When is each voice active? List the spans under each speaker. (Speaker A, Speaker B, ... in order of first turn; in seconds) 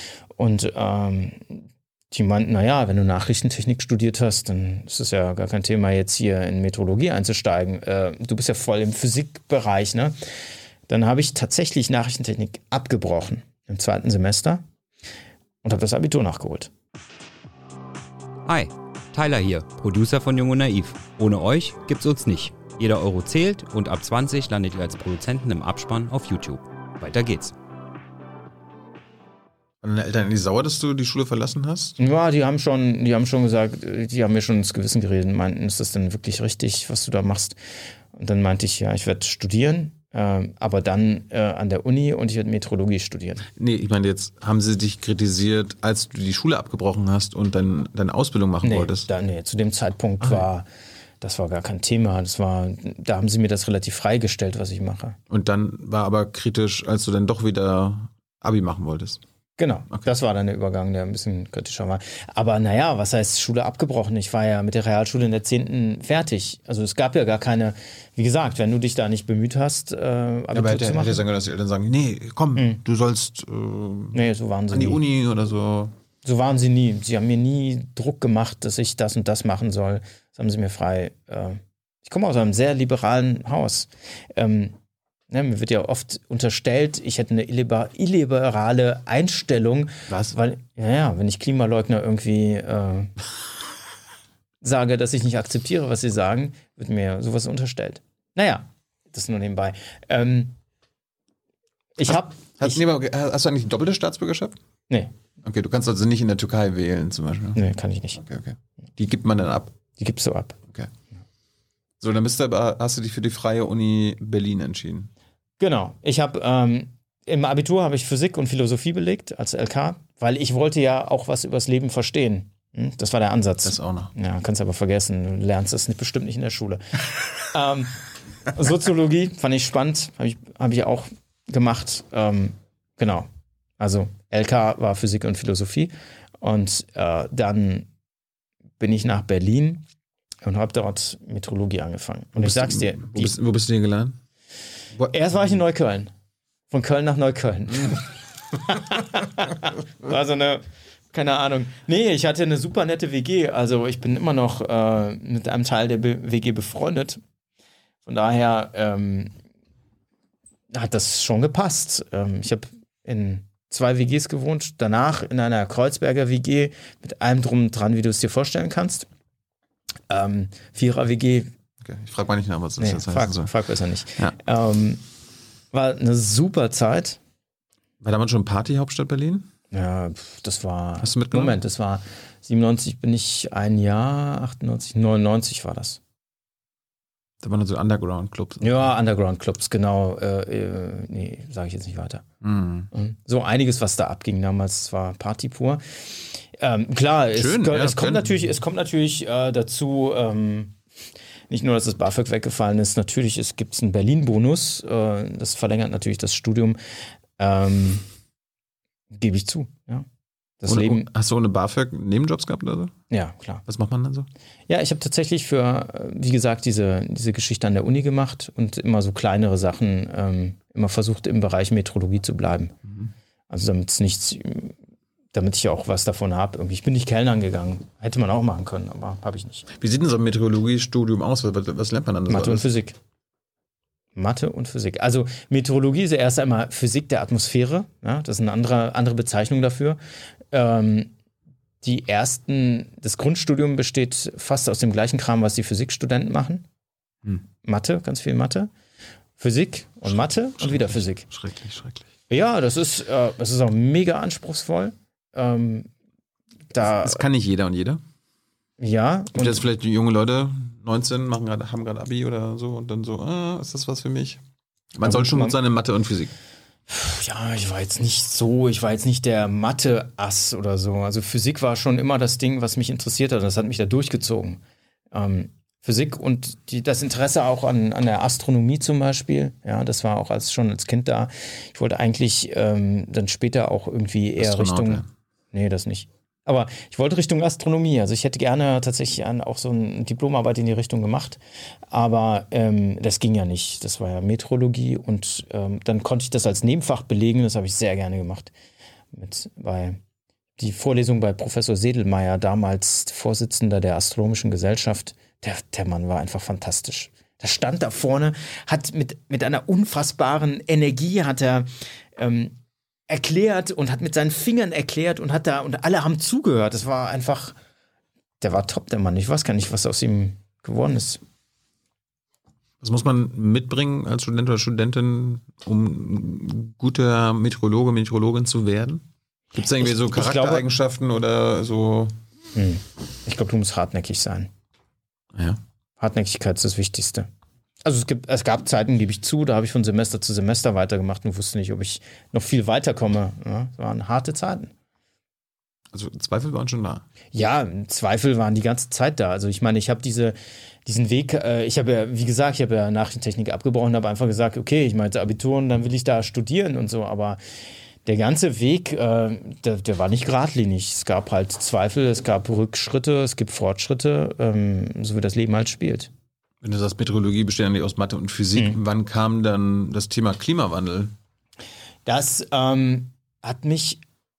Speaker A: 0.4-10.1, 10.9-14.6, 15.6-16.7, 32.0-37.6, 38.1-43.5, 48.6-50.7, 51.2-55.2, 59.6-71.2, 74.1-75.0, 76.2-84.8, 85.3-93.1, 94.6-100.6, 102.0-102.8, 107.5-108.2, 110.0-110.6, 115.6-128.0, 128.5-137.9, 138.8-139.8, 140.4-143.3, 145.1-146.1, 146.7-157.2, 158.0-159.3, 160.7-169.1, 170.1-171.5, 172.8-175.0, 175.7-177.2, 179.7-186.0, 188.6-192.2, 192.9-200.8, 201.5-206.8, 207.4-208.1, 209.1-210.1, 210.6-211.1, 213.1-213.6, 214.7-222.7, 223.5-224.8, 225.3-229.6, 232.3-233.0, 234.1-240.0, 240.5-241.1, 241.8-246.6, 247.6-248.7, 249.4-251.3, 252.3-255.9, 256.7-257.2, 258.8-259.6, 265.0-265.6, 266.9-274.6, 275.1-291.4, 291.9-298.5, 299.1-300.0, 300.6-312.6, 313.1-317.6, 318.4-321.2, 329.8-330.7, 332.5-334.5, 336.0-337.3, 337.8-344.7, 347.3-357.4, 358.0-366.1, 372.1-374.0
Speaker B: 18.5-27.5
Speaker C: 29.8-32.0, 43.5-49.1, 55.3-59.2, 70.5-75.9, 90.1-90.3, 102.6-104.5, 105.4-107.6, 108.2-109.8, 112.0-115.1, 123.6-124.1, 142.4-144.2, 144.9-145.2, 171.8-173.5, 178.0-179.5, 181.0-181.6, 187.4-188.9, 192.4-192.9, 197.3-198.4, 210.7-212.9, 213.7-214.3, 229.7-232.7, 250.1-252.1, 256.8-258.0, 259.3-264.4, 264.9-266.3, 284.4-285.1, 322.8-332.1, 335.3-335.6, 345.9-347.0, 366.6-371.1